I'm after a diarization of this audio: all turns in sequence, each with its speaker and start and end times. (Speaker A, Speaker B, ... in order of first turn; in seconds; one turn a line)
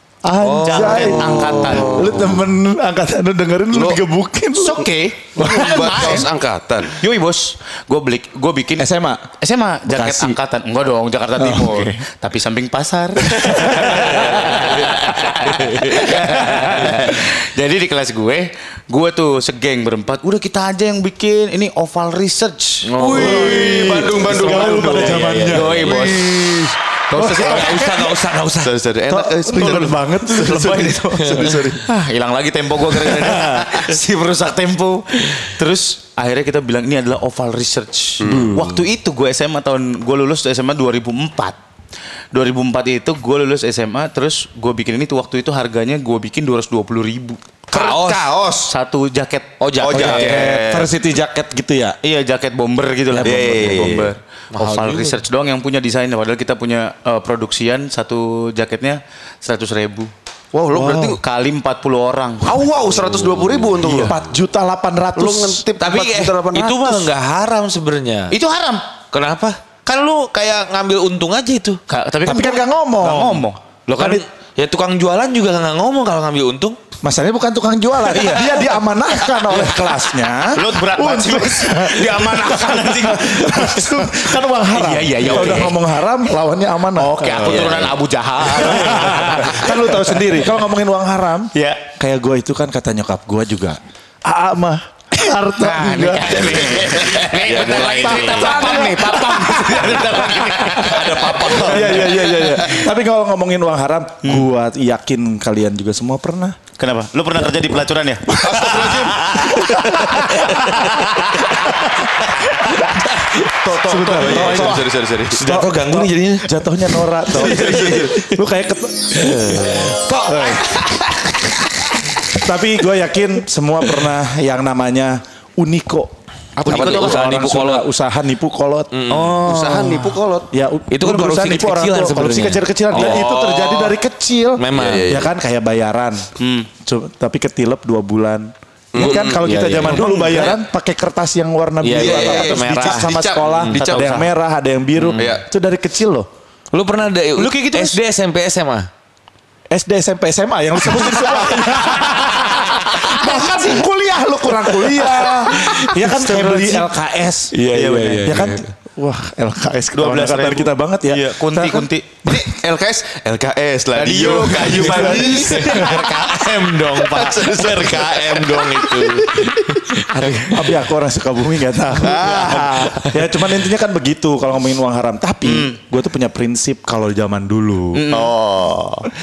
Speaker A: 0.2-5.8
Speaker B: 0.4-2.2
Speaker C: 0.7-2.2
Speaker D: 3.7-4.0
Speaker C: 4.5-6.3
Speaker D: 5.4-7.0
Speaker C: 7.0-22.9
Speaker A: 8.8-9.2
Speaker A: 9.9-10.4
Speaker A: 11.4-12.0
Speaker A: 13.4-14.1
Speaker B: 14.5-14.8
Speaker B: 15.4-16.1
Speaker B: 22.8-26.0
Speaker D: 23.0-26.7
Speaker A: 23.1-26.0
Speaker C: 25.5-27.9
Speaker A: 27.1-27.9
Speaker B: 27.3-28.8
Speaker D: 28.6-31.8
Speaker A: 29.1-31.1
Speaker C: 30.6-41.6
Speaker B: 31.2-31.5
Speaker D: 38.2-38.6
Speaker B: 38.3-38.8
Speaker C: 42.3-47.4
Speaker B: 47.7-48.3
Speaker D: 47.7-48.7
Speaker C: 48.7-49.5
Speaker B: 49.6-50.5
Speaker D: 49.8-50.9
Speaker A: 49.9-52.0
Speaker C: 52.0-60.1
Speaker A: 53.1-53.9
Speaker D: 53.2-54.1
Speaker B: 54.5-55.2
Speaker D: 60.5-61.2
Speaker A: 60.7-61.2
Speaker C: 61.2-62.6
Speaker D: 62.5-64.3
Speaker C: 63.8-64.1
Speaker A: 63.9-65.7
Speaker D: 65.2-67.1
Speaker B: 65.8-68.4
Speaker C: 68.3-68.8
Speaker B: 69.1-71.8
Speaker C: 71.9-74.2
Speaker A: 72.2-73.4
Speaker B: 73.9-76.8
Speaker A: 77.0-87.8
Speaker C: 78.1-85.8
Speaker C: 87.0-90.4
Speaker D: 87.5-88.0
Speaker A: 88.5-97.0
Speaker C: 91.5-91.8
Speaker C: 95.6-102.5
Speaker D: 97.0-97.5
Speaker B: 97.2-98.9
Speaker A: 97.5-101.0
Speaker B: 100.7-102.2
Speaker A: 101.6-106.6
Speaker D: 102.0-102.9
Speaker C: 106.8-111.7
Speaker D: 108.3-109.5
Speaker A: 109.8-110.8
Speaker D: 113.6-115.4
Speaker A: 113.8-114.9
Speaker C: 114.0-114.8
Speaker B: 115.3-118.2
Speaker A: 115.4-120.9
Speaker D: 117.3-118.2
Speaker B: 119.1-121.3
Speaker A: 122.3-128.9
Speaker B: 126.6-127.9
Speaker C: 126.6-127.6
Speaker B: 128.9-130.1
Speaker C: 129.1-130.0
Speaker D: 129.4-130.5
Speaker A: 130.5-136.2
Speaker B: 130.9-133.3
Speaker D: 132.9-134.0
Speaker B: 134.6-135.1
Speaker D: 134.7-135.3
Speaker C: 136.4-136.7
Speaker A: 136.9-146.3
Speaker D: 138.9-139.5
Speaker B: 139.0-140.6
Speaker B: 141.8-144.0
Speaker D: 141.9-144.3
Speaker B: 145.0-145.4
Speaker D: 145.2-145.4
Speaker B: 146.7-148.9
Speaker C: 147.4-148.0
Speaker A: 149.7-157.6
Speaker B: 155.5-155.9
Speaker C: 155.7-156.9
Speaker B: 157.5-158.7
Speaker C: 157.7-158.4
Speaker A: 158.2-162.5
Speaker C: 159.9-162.1
Speaker D: 162.3-169.5
Speaker C: 163.9-166.1
Speaker A: 164.7-166.1
Speaker B: 164.7-170.7
Speaker A: 170.1-178.1
Speaker D: 172.0-172.9
Speaker C: 175.5-175.8
Speaker C: 177.9-178.4
Speaker D: 178.1-179.1